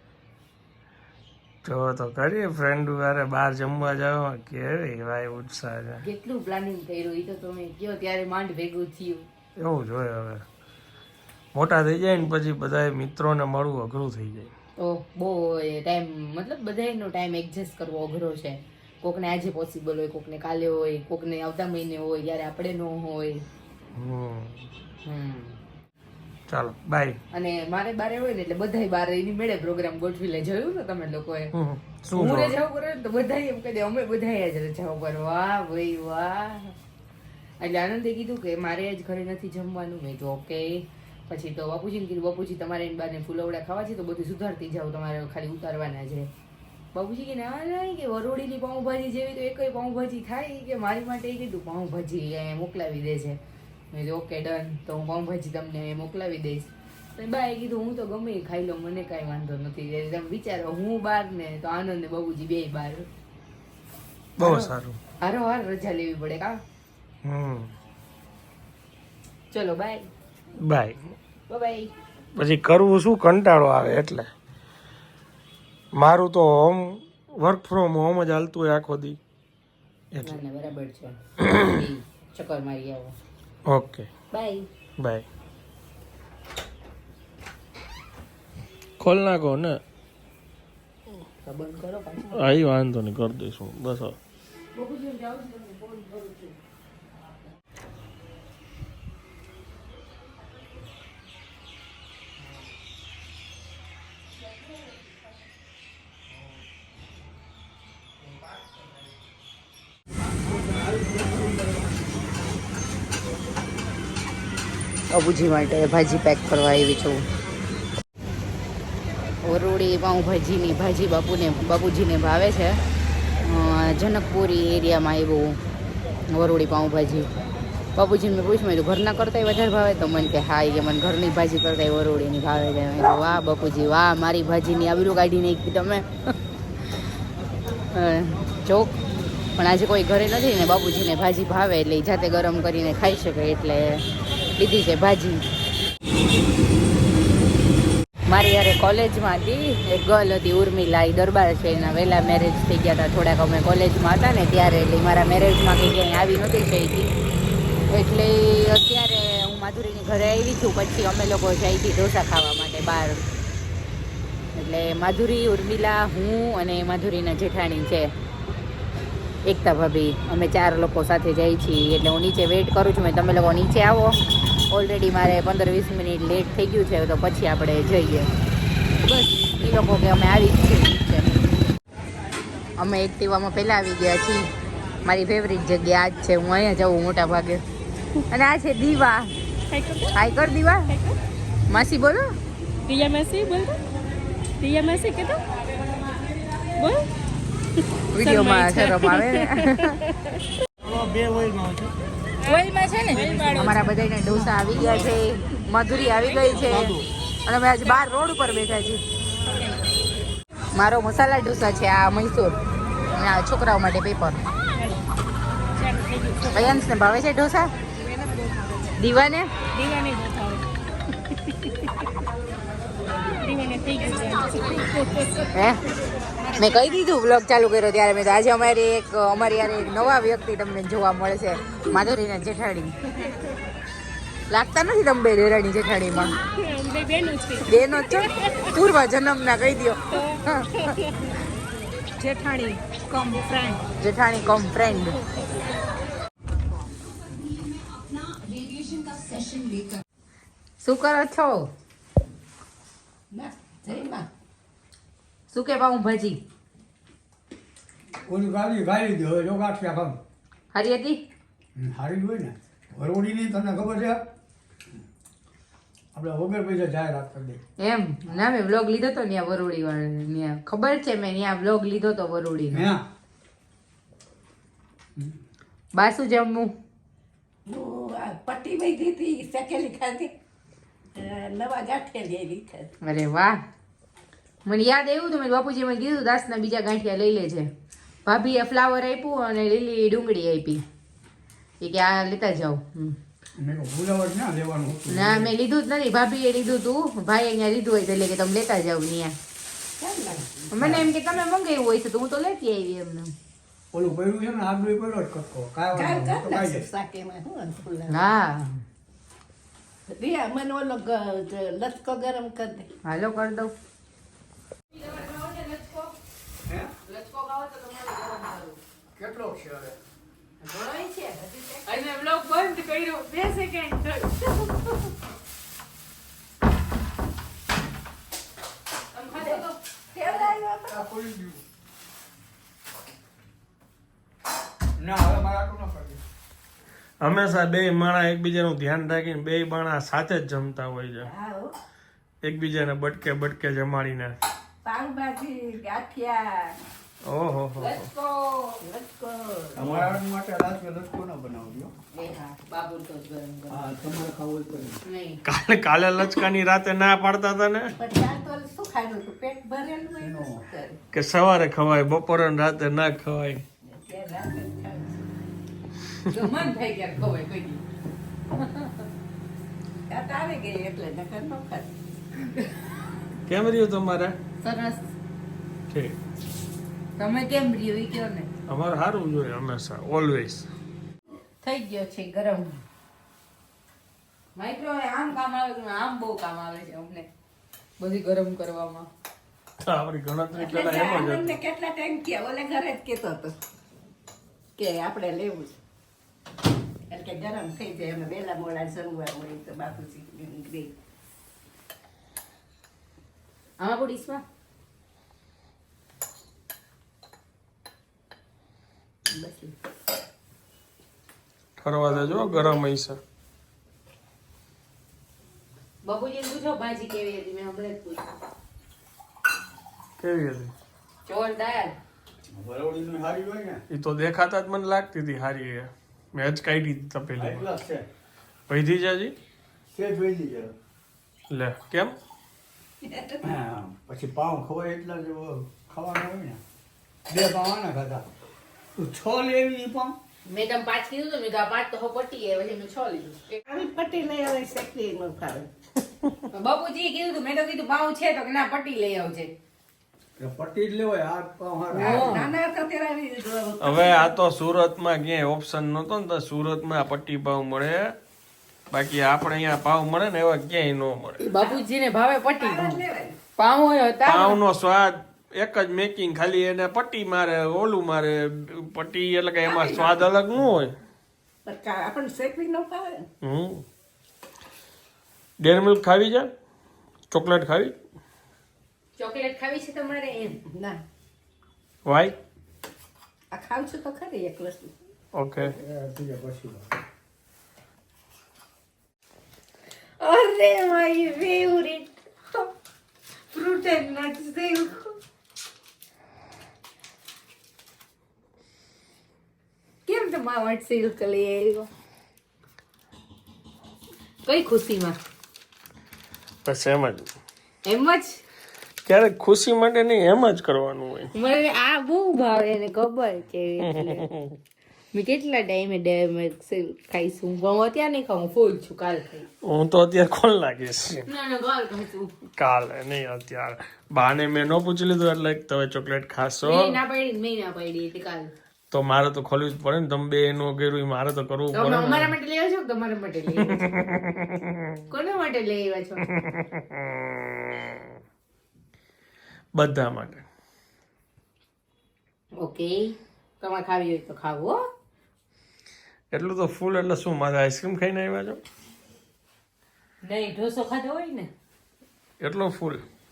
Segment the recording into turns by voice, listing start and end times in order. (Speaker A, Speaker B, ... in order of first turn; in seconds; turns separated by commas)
Speaker A: 1.6-6.0, Speaker B: 6.0-9.3, Speaker A: 9.6-10.4, Speaker A: 11.5-14.5, Speaker B: 14.8-23.4, Speaker A: 23.9-24.7, Speaker B: 25.0-25.6, Speaker A: 26.5-27.2, Speaker B: 27.3-31.5, Speaker A: 31.5-32.6, Speaker B: 32.1-36.8, Speaker B: 37.6-46.3, Speaker B: 46.9-53.4, Speaker B: 53.9-63.1, Speaker A: 64.4-65.0, Speaker B: 64.4-64.7, Speaker B: 65.2-66.6, Speaker A: 67.2-67.7, Speaker B: 69.5-70.1, Speaker A: 70.6-71.0, Speaker B: 71.5-71.9, Speaker A: 72.4-74.3, Speaker A: 75.9-79.2, Speaker A: 80.1-80.4, Speaker B: 80.2-83.2, Speaker A: 83.7-84.1, Speaker B: 84.3-84.7, Speaker A: 85.0-85.3, Speaker A: 89.0-89.8, Speaker B: 91.5-92.5, Speaker A: 92.3-94.2, Speaker B: 94.8-96.6, Speaker B: 115.1-117.2, Speaker B: 119.4-122.8, Speaker B: 123.4-125.6, Speaker B: 126.3-127.3, Speaker B: 128.0-136.1, Speaker B: 137.9-138.9, Speaker B: 139.6-144.1, Speaker B: 144.6-145.4, Speaker B: 148.3-157.1, Speaker B: 157.9-163.2, Speaker B: 164.6-168.1, Speaker B: 169.4-174.2, Speaker B: 174.7-178.3, Speaker B: 179.0-181.6, Speaker B: 182.8-184.5, Speaker B: 185.1-187.6, Speaker B: 188.3-189.3, Speaker C: 189.8-190.1, Speaker B: 190.1-191.0, Speaker B: 191.7-192.2, Speaker C: 192.9-193.7, Speaker C: 194.6-195.4, Speaker B: 198.1-200.0, Speaker C: 198.4-199.1, Speaker C: 202.5-203.6, Speaker B: 203.5-209.0, Speaker B: 210.8-212.6, Speaker B: 213.1-214.4, Speaker C: 216.0-216.5, Speaker B: 216.5-217.7, Speaker B: 219.0-219.5, Speaker C: 219.7-220.6, Speaker C: 223.4-225.4, Speaker B: 225.5-225.8, Speaker B: 226.6-232.9, Speaker B: 234.5-236.4, Speaker C: 236.6-237.6, Speaker B: 237.6-241.0, Speaker B: 242.2-245.2, Speaker D: 248.4-249.7, Speaker B: 250.8-251.7, Speaker D: 253.3-254.3, Speaker B: 255.5-256.4, Speaker E: 258.3-260.2, Speaker B: 260.7-261.2, Speaker E: 261.8-264.2, Speaker E: 266.1-267.6, Speaker B: 267.8-272.9, Speaker E: 272.7-273.0, Speaker B: 275.9-276.7, Speaker D: 277.7-280.3, Speaker D: 281.1-282.9, Speaker B: 283.0-283.6, Speaker B: 284.6-287.7, Speaker B: 288.2-290.8, Speaker B: 291.8-293.2, Speaker E: 293.6-295.5, Speaker B: 295.1-299.4, Speaker D: 300.0-300.7, Speaker B: 300.7-303.3, Speaker E: 300.8-301.1, Speaker E: 303.9-306.9, Speaker D: 305.9-308.3, Speaker B: 308.1-308.8, Speaker D: 310.1-312.9, Speaker B: 313.0-313.7, Speaker B: 314.9-316.1, Speaker E: 316.7-316.9, Speaker B: 317.1-318.8, Speaker E: 319.2-320.0, Speaker B: 320.6-325.1, Speaker B: 329.1-330.6, Speaker D: 330.1-331.0, Speaker E: 330.9-331.6, Speaker E: 335.0-336.2, Speaker A: 337.2-341.3, Speaker D: 341.2-341.8, Speaker A: 342.4-344.4, Speaker D: 344.8-346.8, Speaker A: 347.2-348.1, Speaker B: 347.8-348.8, Speaker D: 348.8-350.2, Speaker E: 349.8-351.9, Speaker B: 352.1-353.9, Speaker E: 353.7-355.0, Speaker B: 355.1-355.4, Speaker A: 355.4-357.9, Speaker D: 358.0-361.0, Speaker E: 360.2-360.6, Speaker A: 361.1-363.6, Speaker D: 363.9-365.5, Speaker B: 366.3-367.8, Speaker B: 368.5-369.1, Speaker D: 370.1-371.9, Speaker A: 373.4-374.4, Speaker B: 374.6-375.0, Speaker A: 375.9-376.2, Speaker B: 377.2-378.5, Speaker A: 378.7-380.7, Speaker B: 381.6-382.8, Speaker B: 384.6-387.3, Speaker B: 388.0-389.1, Speaker A: 389.8-391.6, Speaker D: 390.5-393.5, Speaker D: 394.8-395.8, Speaker D: 397.1-400.9, Speaker B: 403.8-404.4, Speaker D: 409.3-409.7, Speaker A: 411.8-413.2, Speaker B: 416.0-418.2, Speaker A: 420.2-420.7, Speaker B: 421.3-421.9, Speaker E: 422.5-423.8, Speaker A: 423.9-427.7, Speaker E: 427.4-428.1, Speaker A: 428.7-429.3, Speaker E: 429.9-430.7, Speaker A: 431.5-432.2, Speaker D: 433.1-433.5, Speaker E: 433.4-436.6, Speaker E: 437.3-438.2, Speaker E: 439.0-440.2, Speaker B: 440.5-443.6, Speaker D: 443.7-445.7, Speaker B: 446.5-449.5, Speaker E: 450.4-452.4, Speaker B: 451.9-452.5, Speaker D: 451.9-454.3, Speaker A: 453.8-458.1, Speaker A: 458.9-461.4, Speaker B: 461.4-463.0, Speaker D: 461.5-461.8, Speaker D: 462.5-463.4, Speaker B: 463.6-464.6, Speaker A: 464.3-470.9, Speaker D: 469.6-470.2, Speaker D: 471.6-473.3, Speaker A: 473.4-473.9, Speaker A: 475.6-476.5, Speaker A: 477.3-477.9, Speaker B: 479.2-480.6, Speaker D: 480.7-481.0, Speaker A: 482.1-482.4, Speaker D: 483.5-484.9, Speaker A: 485.3-485.8, Speaker E: 485.7-486.9, Speaker B: 490.2-492.7, Speaker B: 493.5-495.2, Speaker B: 500.1-501.9, Speaker B: 504.4-505.2, Speaker A: 506.6-507.3, Speaker B: 507.9-508.4, Speaker A: 509.1-511.3, Speaker B: 511.3-514.3, Speaker A: 513.9-514.6, Speaker B: 515.1-519.5, Speaker A: 519.6-521.3, Speaker B: 521.3-522.3, Speaker A: 522.6-527.0, Speaker B: 526.6-528.5, Speaker A: 528.9-532.4, Speaker B: 531.7-533.9, Speaker A: 533.6-535.0, Speaker B: 535.1-536.3, Speaker A: 536.3-538.0, Speaker A: 539.8-540.5, Speaker B: 542.6-544.8, Speaker A: 546.3-548.6, Speaker B: 550.2-551.5, Speaker A: 552.4-553.0